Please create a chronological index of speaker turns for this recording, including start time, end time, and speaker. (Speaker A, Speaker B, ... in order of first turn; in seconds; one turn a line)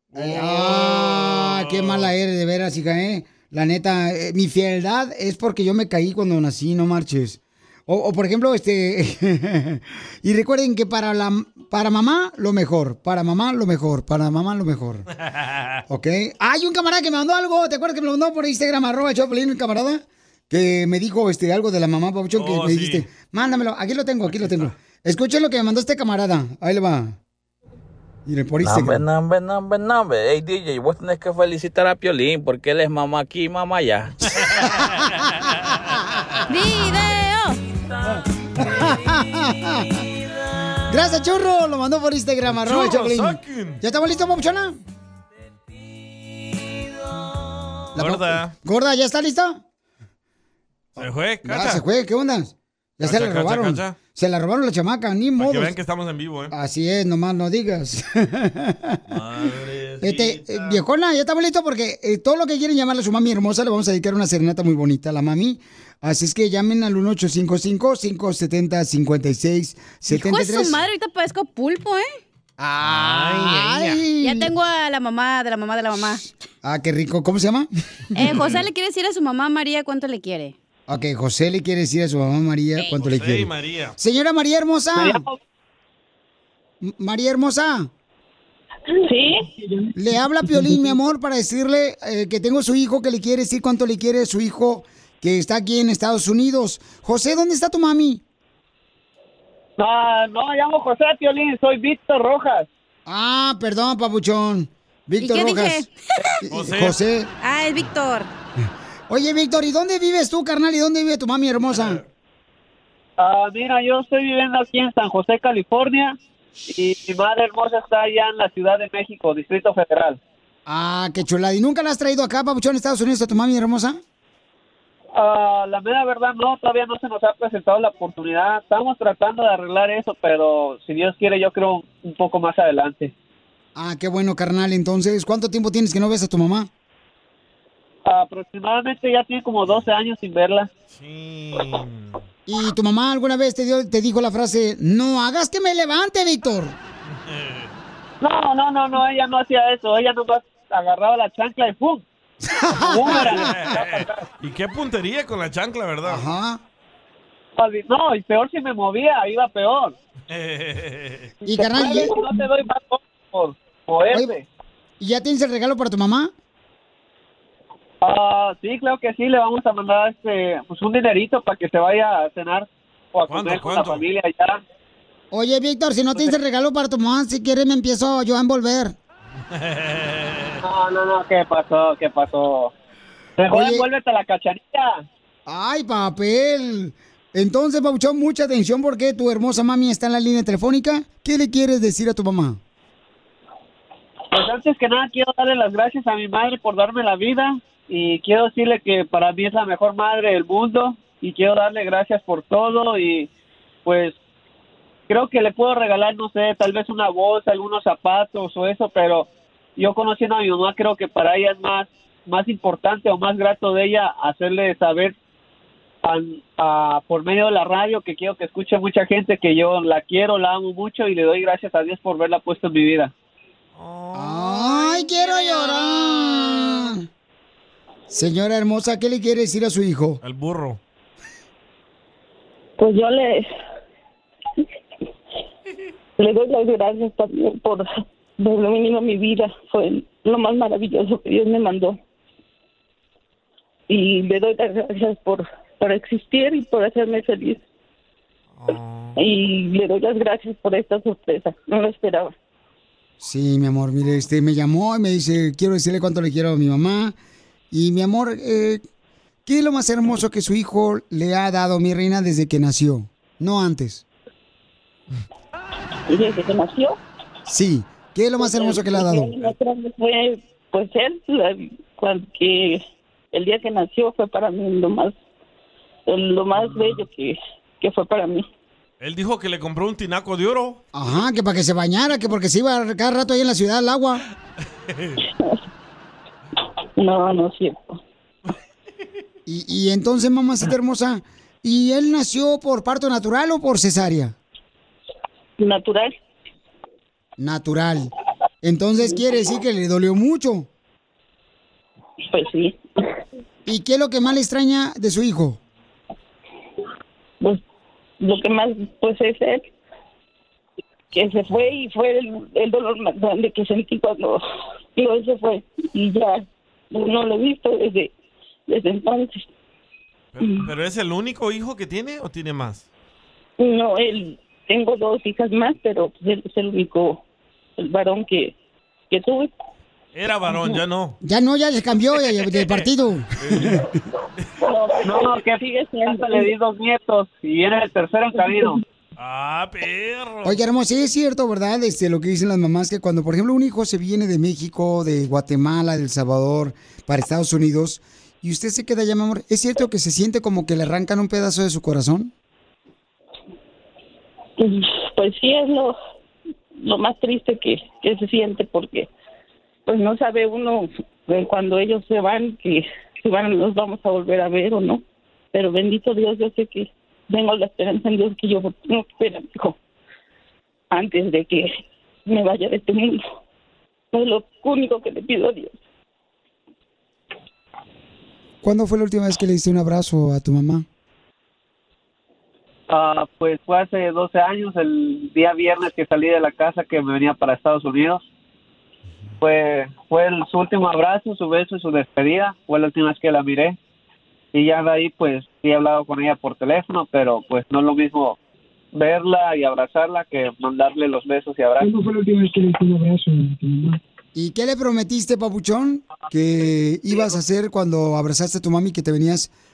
Speaker A: 0.1-2.1
Speaker B: 0.1-15.1
Speaker A: 15.3-15.8
Speaker B: 15.9-27.1
Speaker A: 22.4-23.1
Speaker A: 24.3-24.7
Speaker B: 28.3-29.0
Speaker C: 28.6-34.1
Speaker A: 34.3-35.8
Speaker B: 34.6-35.1
Speaker B: 35.9-36.2
Speaker D: 36.5-37.6
Speaker B: 38.0-40.1
Speaker B: 40.9-44.8
Speaker A: 42.5-43.8
Speaker B: 47.9-49.6
Speaker A: 48.0-48.5
Speaker A: 51.0-51.8
Speaker B: 51.4-55.7
Speaker A: 53.0-54.0
Speaker A: 55.4-56.5
Speaker B: 56.5-59.0
Speaker A: 59.1-60.8
Speaker B: 60.0-70.8
Speaker D: 70.1-72.1
Speaker B: 72.6-74.5
Speaker A: 72.8-74.0
Speaker D: 74.2-76.2
Speaker B: 76.6-77.7
Speaker D: 78.2-80.5
Speaker A: 78.2-78.6
Speaker B: 80.9-85.2
Speaker A: 83.0-84.0
Speaker E: 85.0-85.4
Speaker B: 86.8-87.9
Speaker F: 88.9-89.5
Speaker B: 89.9-98.2
Speaker E: 99.8-102.7
Speaker B: 103.1-105.9
Speaker D: 105.2-105.9
Speaker B: 106.4-107.3
Speaker A: 106.5-107.0
Speaker D: 107.4-108.3
Speaker B: 109.1-112.0
Speaker A: 111.7-112.0
Speaker E: 113.2-116.2
Speaker E: 116.7-120.2
Speaker B: 120.7-124.0
Speaker E: 125.1-133.1
Speaker B: 133.7-136.7
Speaker E: 138.1-140.7
Speaker A: 140.9-142.2
Speaker B: 142.5-146.8
Speaker A: 147.1-147.7
Speaker E: 148.2-152.0
Speaker B: 152.4-153.5
Speaker E: 152.8-154.2
Speaker A: 153.1-156.2
Speaker B: 156.0-156.6
Speaker E: 157.6-159.9
Speaker A: 160.3-161.3
Speaker B: 161.4-162.1
Speaker E: 161.5-164.4
Speaker B: 165.0-166.3
Speaker E: 168.0-174.6
Speaker A: 173.3-174.1
Speaker B: 175.3-178.9
Speaker A: 179.5-180.6
Speaker E: 180.6-182.7
Speaker E: 183.4-185.0
Speaker B: 183.5-183.8
Speaker B: 185.5-192.6
Speaker E: 194.3-203.3
Speaker E: 203.8-204.2
Speaker E: 205.1-215.1
Speaker E: 216.0-223.1
Speaker A: 223.8-225.3
Speaker B: 224.1-227.0
Speaker D: 225.2-225.7
Speaker B: 228.1-230.2
Speaker A: 230.2-230.8
Speaker F: 232.8-233.5
Speaker F: 236.2-237.9
Speaker F: 238.4-242.0
Speaker F: 243.9-247.6
Speaker A: 248.6-249.2
Speaker F: 249.2-252.3
Speaker B: 253.2-257.1
Speaker B: 257.7-258.8
Speaker B: 259.4-264.0
Speaker F: 266.1-267.0
Speaker B: 267.4-269.4
Speaker F: 268.4-275.2
Speaker F: 276.1-278.4
Speaker A: 279.0-280.8
Speaker B: 280.9-284.2
Speaker A: 284.9-285.2
Speaker F: 285.2-285.6
Speaker F: 287.0-288.0
Speaker B: 289.4-294.4
Speaker F: 295.6-296.1
Speaker B: 297.4-298.1
Speaker B: 298.6-300.7
Speaker F: 302.3-302.8
Speaker B: 303.6-305.6
Speaker F: 308.2-309.7
Speaker F: 311.1-314.4
Speaker F: 314.9-318.1
Speaker F: 318.7-319.5
Speaker A: 320.3-322.9
Speaker F: 320.4-320.7
Speaker F: 323.6-327.2
Speaker F: 327.8-328.6
Speaker F: 329.1-329.5
Speaker A: 330.1-331.2
Speaker B: 331.2-333.9
Speaker A: 332.4-332.9
Speaker A: 333.4-334.4
Speaker F: 334.6-336.5
Speaker E: 335.1-338.8
Speaker F: 338.4-338.8
Speaker A: 339.2-340.6
Speaker B: 340.4-352.3
Speaker F: 354.6-356.0
Speaker F: 356.8-359.1
Speaker F: 359.9-365.0
Speaker F: 365.5-369.8
Speaker F: 370.9-371.8
Speaker F: 372.3-373.2
Speaker F: 374.1-375.8
Speaker B: 378.6-380.9
Speaker E: 382.9-388.3
Speaker E: 389.4-393.8
Speaker E: 394.5-398.4
Speaker E: 398.9-401.9
Speaker B: 404.4-409.5